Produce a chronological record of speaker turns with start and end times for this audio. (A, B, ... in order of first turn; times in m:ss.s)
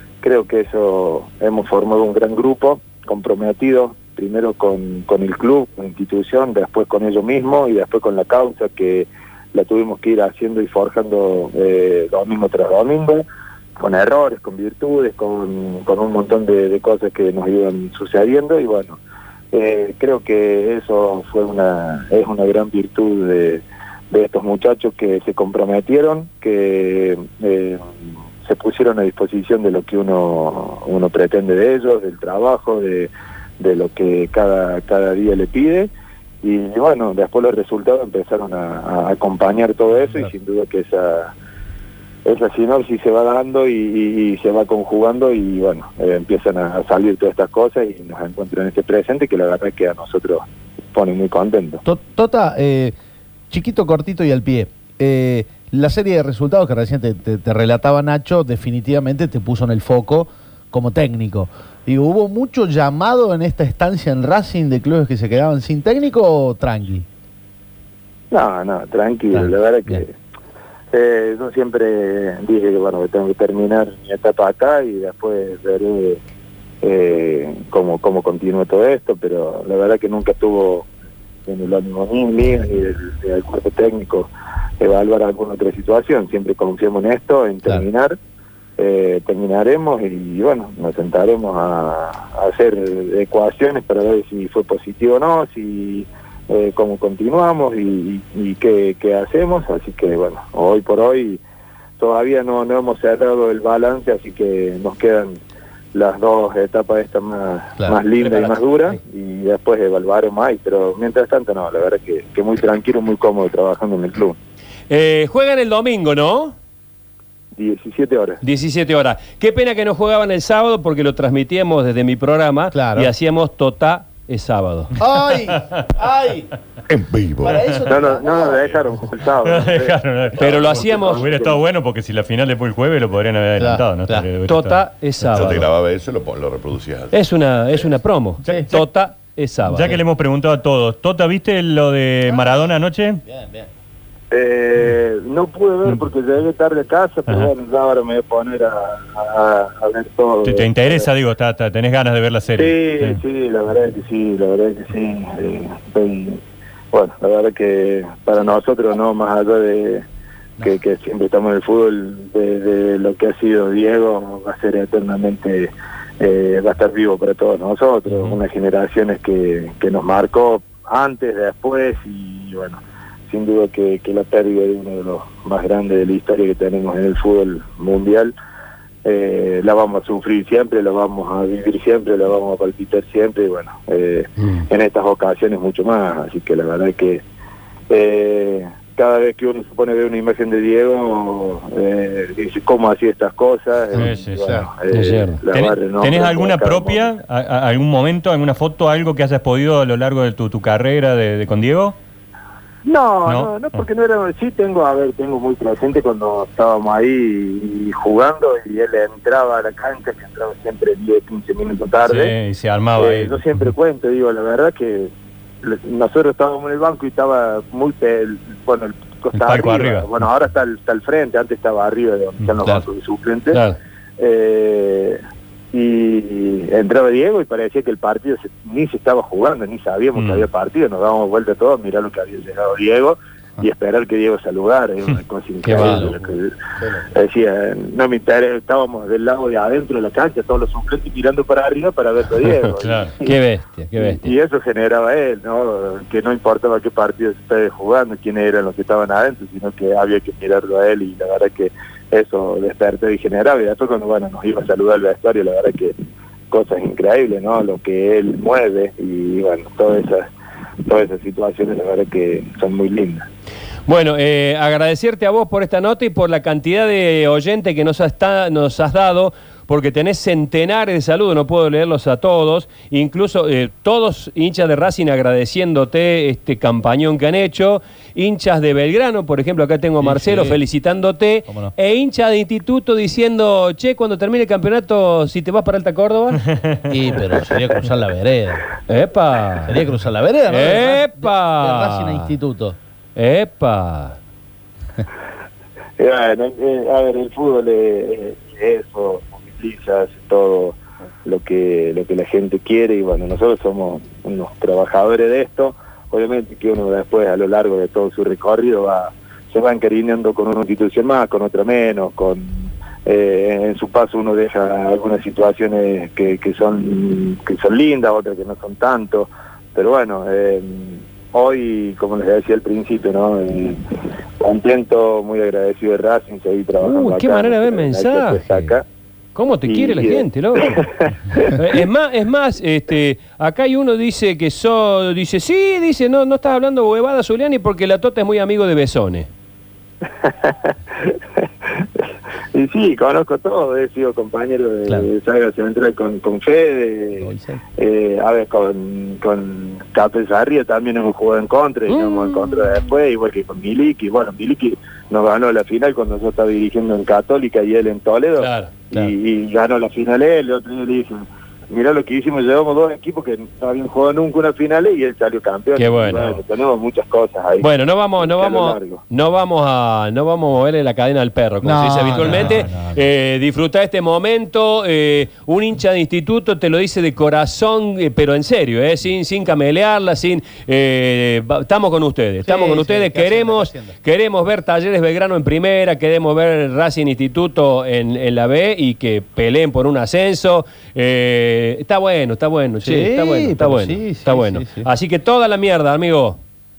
0:00.2-0:13.2 A
0:13.8-0:19.0 A
0:19.5-0:27.8 A
0:28.4-0:35.9 A
0:36.4-0:41.3 A
0:42.2-0:51.8 A
0:51.8-0:53.0 B
0:53.5-1:07.0 B
1:08.3-1:10.1 A
1:09.3-1:10.0 B
1:10.9-1:16.2 A
1:16.8-1:20.9 A
1:21.5-1:28.2 A
1:28.8-1:41.4 A
1:42.0-1:45.4 A
1:45.9-1:54.4 A
1:48.2-1:48.6 C
1:54.9-1:56.6 C
1:57.6-1:58.4 A
1:58.4-2:04.9 C
2:02.7-2:03.1 B
2:05.0-2:06.5 B
2:06.9-2:07.7 D
2:07.4-2:08.8 B
2:07.9-2:11.6 A
2:09.4-2:14.8 E
2:10.4-2:11.3 C
2:13.6-2:14.3 B
2:14.5-2:15.7 C
2:15.3-2:17.2 D
2:17.1-2:20.0 C
2:18.5-2:18.9 E
2:19.7-2:23.2 E
2:22.3-2:22.6 B
2:23.3-2:23.7 B
2:24.3-2:31.1 A
2:30.4-2:33.2 E
2:32.5-2:36.4 A
2:36.9-2:40.0 A
2:40.6-2:58.3 A
2:48.1-2:48.4 E
2:59.0-3:07.2 A
3:04.4-3:04.6 C
3:07.9-3:17.1 A
3:13.9-3:14.6 E
3:13.9-3:14.7 B
3:14.9-3:15.4 C
3:15.5-3:22.0 E
3:22.8-3:32.4 A
3:23.2-3:23.9 E
3:32.0-3:33.7 E
3:33.0-3:35.1 A
3:35.6-3:43.6 A
3:39.3-3:40.1 E
3:43.5-3:43.8 C
3:44.2-3:45.2 A
3:45.7-3:56.5 A
3:50.2-3:50.5 E
3:55.6-3:56.2 C
3:55.8-3:56.1 B
3:57.2-4:03.3 A
4:02.8-4:03.1 E
4:03.2-4:04.3 C
4:04.0-4:15.9 A
4:16.5-4:20.3 A
4:20.9-4:23.3 A
4:23.9-4:46.4 C
4:40.1-4:40.6 B
4:41.5-4:41.7 B
4:46.9-4:48.7 B
4:48.9-4:49.8 C
4:49.7-4:52.8 B
4:50.5-4:52.3 C
4:53.2-4:54.2 C
4:56.0-5:23.8 A
5:24.4-5:28.8 A
5:26.8-5:28.8 C
5:29.4-5:30.9 C
5:29.7-5:31.5 A
5:31.5-5:39.3 C
5:40.2-5:42.0 A
5:42.5-6:09.0 A
5:47.1-5:47.6 B
5:51.9-5:52.9 C
5:58.4-5:58.7 C
6:05.8-6:06.3 C
6:07.6-6:36.4 C
6:11.6-6:13.0 B
6:22.4-6:24.0 B
6:32.8-6:34.9 B